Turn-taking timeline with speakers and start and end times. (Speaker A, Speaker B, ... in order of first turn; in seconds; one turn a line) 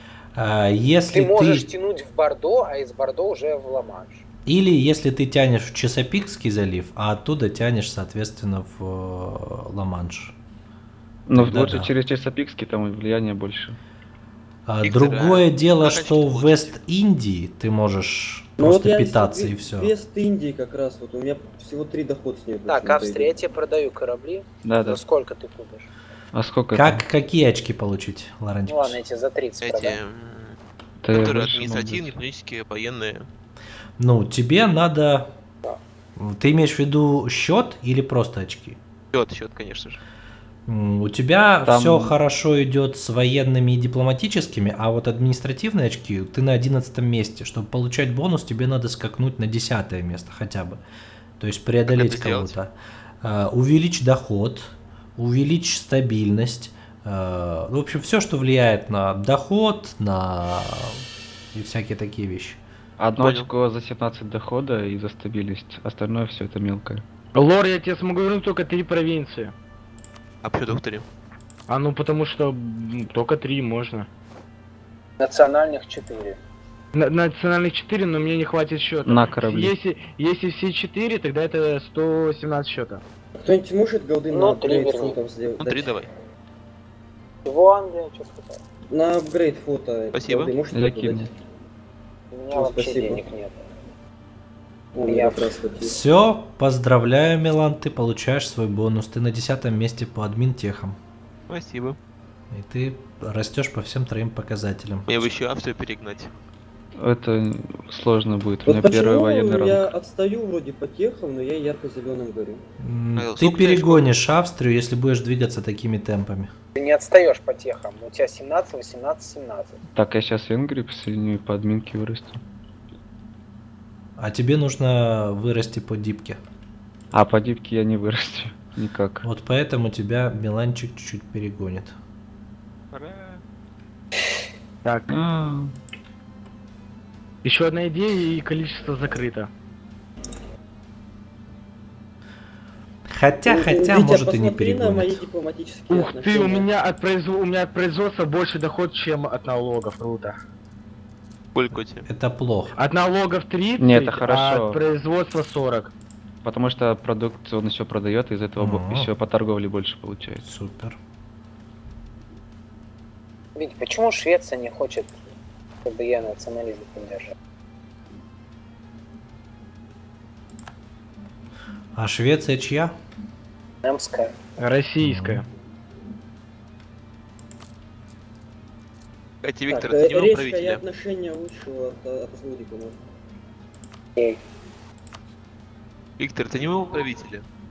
Speaker A: 0.3-1.7
Speaker B: 1.1-4.2
Speaker A: 4.5-10.3
Speaker C: 11.3-13.8
Speaker A: 11.3-11.9
Speaker A: 14.7-19.9
Speaker D: 14.8-16.7
Speaker E: 18.6-23.3
Speaker B: 22.7-25.9
Speaker C: 24.6-25.0
Speaker C: 26.3-27.1
Speaker A: 26.7-29.0
Speaker B: 28.7-30.0
Speaker D: 29.6-30.6
Speaker C: 31.0-32.2
Speaker D: 31.2-33.3
Speaker A: 34.0-35.3
Speaker A: 36.2-38.8
Speaker D: 39.1-40.0
Speaker A: 40.7-50.8
Speaker C: 41.6-42.2
Speaker A: 51.4-61.0
Speaker D: 51.9-52.5
Speaker A: 61.5-62.6
Speaker C: 63.0-67.0
Speaker D: 63.2-63.5
Speaker F: 67.3-69.5
Speaker D: 70.4-71.0
Speaker F: 71.7-74.1
Speaker B: 75.2-76.4
Speaker F: 77.0-83.0
Speaker C: 79.0-79.7
Speaker E: 83.4-86.0
Speaker B: 84.3-85.2
Speaker D: 85.6-86.1
Speaker B: 87.5-88.6
Speaker E: 88.9-91.3
Speaker D: 90.1-90.5
Speaker C: 90.7-91.2
Speaker B: 92.3-93.5
Speaker E: 92.5-93.2
Speaker E: 94.9-96.0
Speaker B: 95.0-95.5
Speaker A: 95.8-101.0
Speaker D: 101.5-102.0
Speaker A: 102.5-105.3
Speaker D: 105.1-106.3
Speaker C: 107.0-109.9
Speaker E: 108.6-112.6
Speaker A: 112.8-116.5
Speaker D: 113.2-114.1
Speaker B: 116.7-119.8
Speaker C: 119.9-122.4
Speaker A: 124.2-126.4
Speaker C: 127.1-129.2
Speaker A: 129.2-131.9
Speaker F: 134.8-135.1
Speaker C: 135.1-135.7
Speaker F: 137.4-139.5
Speaker A: 143.1-145.2
Speaker E: 143.4-146.7
Speaker F: 145.9-150.3
Speaker D: 151.5-152.0
Speaker A: 152.0-152.8
Speaker F: 152.7-155.9
Speaker C: 153.8-154.8
Speaker C: 156.4-160.4
Speaker A: 158.6-159.1
Speaker A: 160.4-161.0
Speaker B: 163.6-165.1
Speaker B: 165.8-167.2
Speaker A: 171.9-172.9
Speaker B: 173.8-174.3
Speaker F: 174.6-175.4
Speaker A: 175.0-175.4
Speaker D: 179.4-180.8
Speaker E: 179.7-183.0
Speaker D: 186.2-187.4